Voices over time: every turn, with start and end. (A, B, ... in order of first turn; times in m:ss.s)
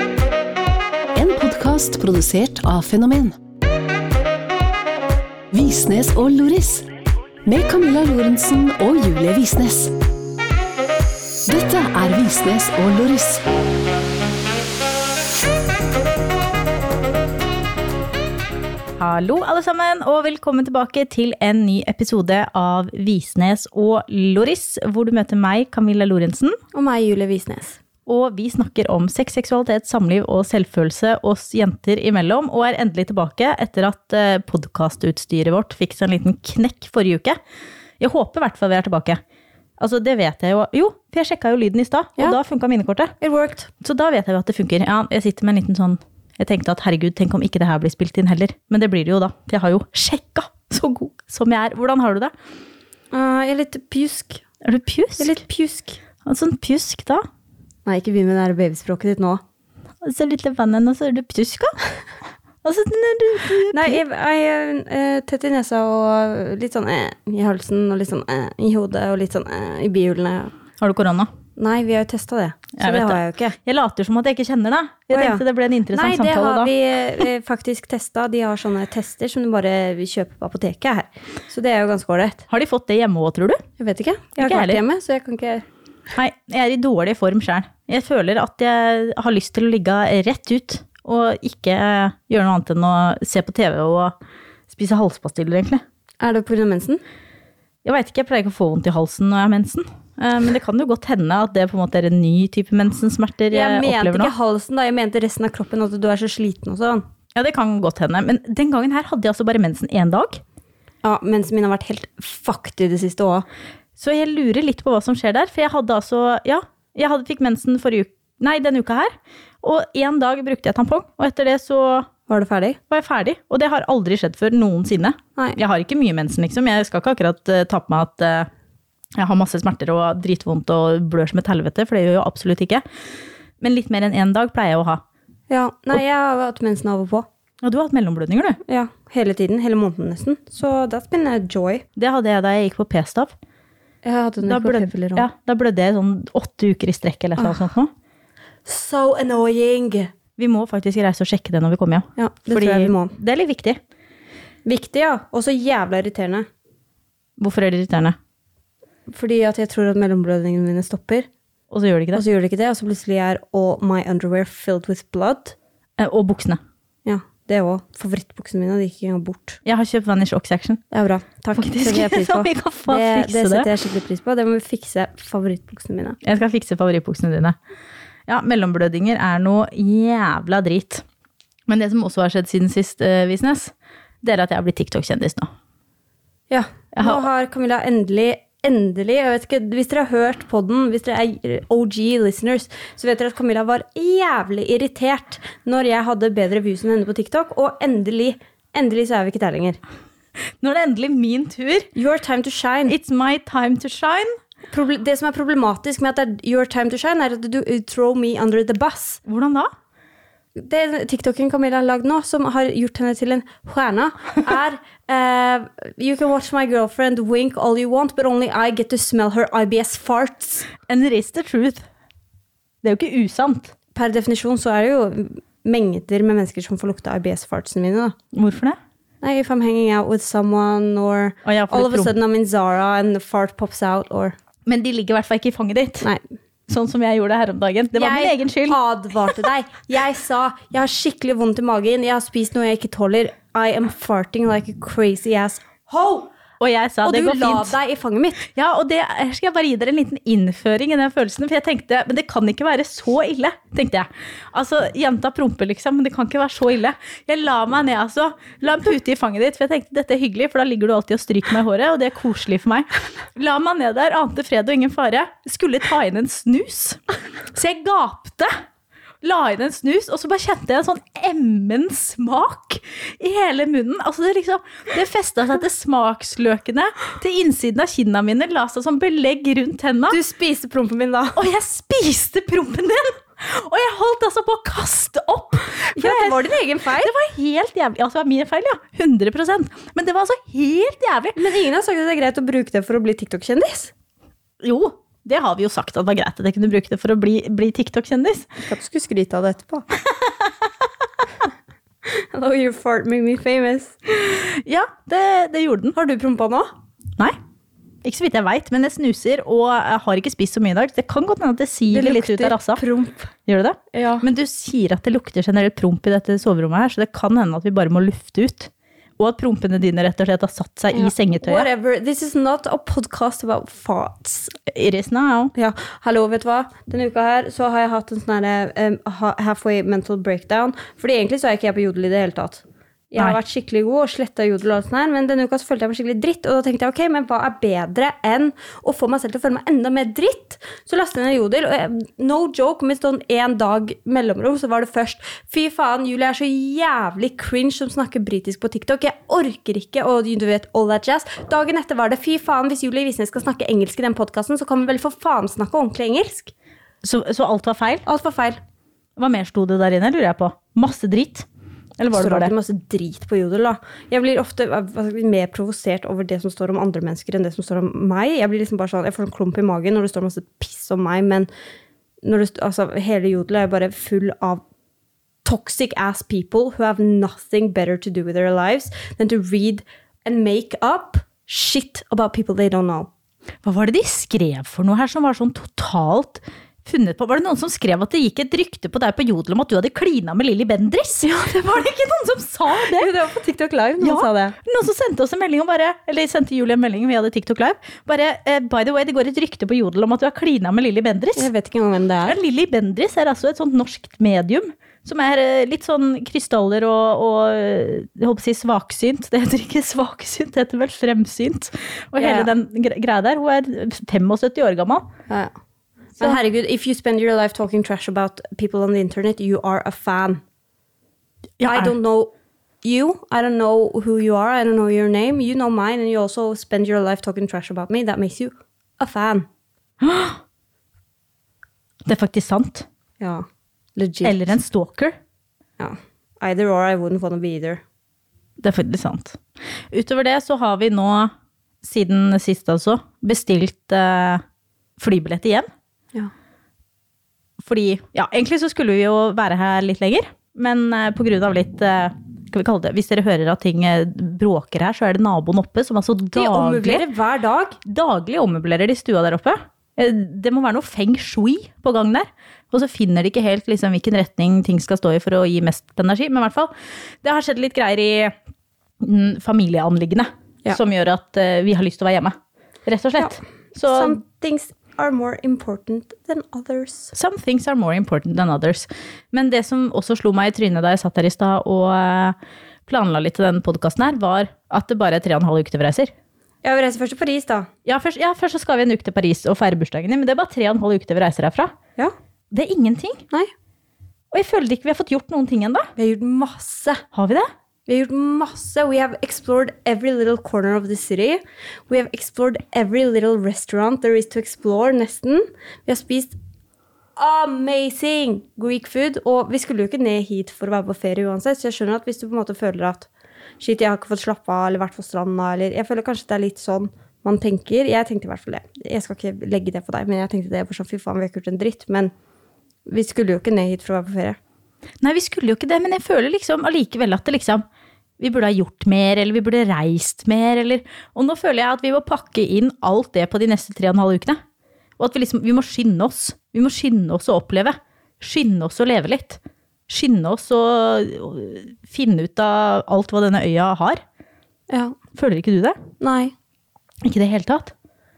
0:01.1-0:03.4 A
0:05.5-0:06.8 A
0:07.4-0:09.9 A
0:11.5-0:13.4 A
0:19.0-0:26.6 B
0:26.7-0:27.8 C
0:28.0-0:37.4 B
0:38.0-0:39.2 B
0:39.8-0:43.1 B
0:43.2-0:43.7 C
0:43.8-0:52.3 B
0:53.1-0:54.4 C
0:54.6-0:55.4 B
0:55.2-0:56.0 C
0:56.2-0:57.2 B
0:57.8-0:59.4 C
1:00.0-1:01.7 B
1:02.6-1:04.0 B
1:03.7-1:10.5 C
1:10.8-1:11.3 B
1:11.6-1:13.6 C
1:12.8-1:16.7 B
1:15.1-1:22.4 C
1:22.5-1:23.6 B
1:23.8-1:25.6 C
1:24.4-1:24.8 B
1:26.2-1:34.1 B
1:34.7-1:35.8 B
1:36.2-1:37.0 C
1:37.8-1:44.3 B
1:43.5-1:47.0 C
1:47.3-1:50.4 B
1:51.0-1:53.4 C
1:54.0-2:02.1 B
2:02.3-2:02.8 C
2:02.9-2:08.5 B
2:09.2-2:12.8 B
2:13.6-2:15.0 B
2:15.5-2:17.3 C
2:17.6-2:18.6 B
2:18.6-2:21.8 C
2:22.0-2:23.3 B
2:24.0-2:25.2 C
2:24.4-2:27.9 B
2:28.6-2:30.1 C
2:30.4-2:33.8 B
2:32.2-2:33.1 C
2:34.6-2:36.4 C
2:37.4-2:38.2 B
2:39.1-2:41.3 C
2:41.7-2:42.2 B
2:42.1-2:45.6 C
2:46.0-2:46.6 B
2:47.0-2:49.6 C
2:49.6-2:50.8 B
2:50.9-2:56.2 C
2:51.6-2:53.7 B
2:56.2-2:57.6 B
2:58.3-3:01.0 B
3:01.7-3:05.5 B
3:06.5-3:19.8 C
3:06.9-3:07.2 B
3:20.6-3:21.9 B
3:21.9-3:23.0 C
3:22.9-3:24.3 B
3:24.7-3:29.2 C
3:29.2-3:29.7 B
3:30.6-3:40.7 C
3:40.9-3:41.8 B
3:42.8-3:43.7 B
3:43.9-3:48.1 C
3:48.3-3:48.8 B
3:49.2-3:54.3 C
3:51.4-3:52.1 B
3:54.6-3:56.1 B
3:56.7-3:58.8 B
3:57.9-4:06.3 C
4:06.6-4:07.8 B
4:07.0-4:08.4 C
4:08.5-4:27.0 B
4:27.5-4:28.5 B
4:29.2-4:40.2 B
4:40.1-4:41.4 C
4:41.4-4:51.5 B
4:45.9-4:47.1 C
4:51.4-4:53.9 C
4:54.6-4:58.5 B
4:58.6-4:59.8 C
5:00.1-5:00.6 B
5:02.1-5:04.0 C
5:04.1-5:05.9 B
5:05.9-5:06.7 C
5:08.0-5:12.8 B
5:11.9-5:13.3 C
5:13.4-5:21.7 B
5:13.9-5:14.2 C
5:20.9-5:24.5 C
5:24.7-5:25.5 B
5:25.5-5:56.5 C
5:57.0-5:58.0 B
5:58.0-5:58.6 C
5:59.2-6:01.5 B
6:02.0-6:02.5 B
6:02.1-6:11.5 C
6:12.2-6:14.6 C
6:15.4-6:23.1 C
6:23.6-6:33.1 B
6:31.2-6:31.9 C
6:32.7-6:34.6 C
6:34.0-6:41.5 B
6:41.4-6:42.4 C
6:42.2-6:55.1 B
6:52.2-6:52.5 C
6:56.2-7:00.4 C
7:01.6-7:01.9 B
7:01.6-7:02.3 C
7:02.8-7:09.4 C
7:10.0-7:10.4 B
7:12.0-7:12.8 B
7:13.2-7:13.4 C
7:14.0-7:14.4 C
7:14.2-7:15.1 B
7:15.8-7:17.8 C
7:18.6-7:19.4 B
7:19.9-7:24.4 B
7:25.0-7:25.7 B
7:27.6-7:37.0 B
7:36.3-7:37.8 C
7:37.8-7:48.4 B
7:49.0-7:54.2 B
7:53.2-7:57.1 C
7:57.1-8:02.4 B
8:02.9-8:06.1 B
8:06.6-8:07.7 C
8:07.8-8:11.7 B
8:12.5-8:13.2 B
8:14.3-8:15.9 B
8:16.0-8:17.0 C
8:17.1-8:17.5 B
8:17.9-8:26.4 C
8:27.2-8:33.1 C
8:33.6-8:42.1 C
8:42.8-8:44.4 C
8:45.0-8:47.6 B
8:48.2-8:54.4 B
8:55.0-9:04.0 B
9:04.7-9:04.9 C
9:05.1-9:05.8 B
9:06.0-9:06.3 C
9:07.0-9:07.7 B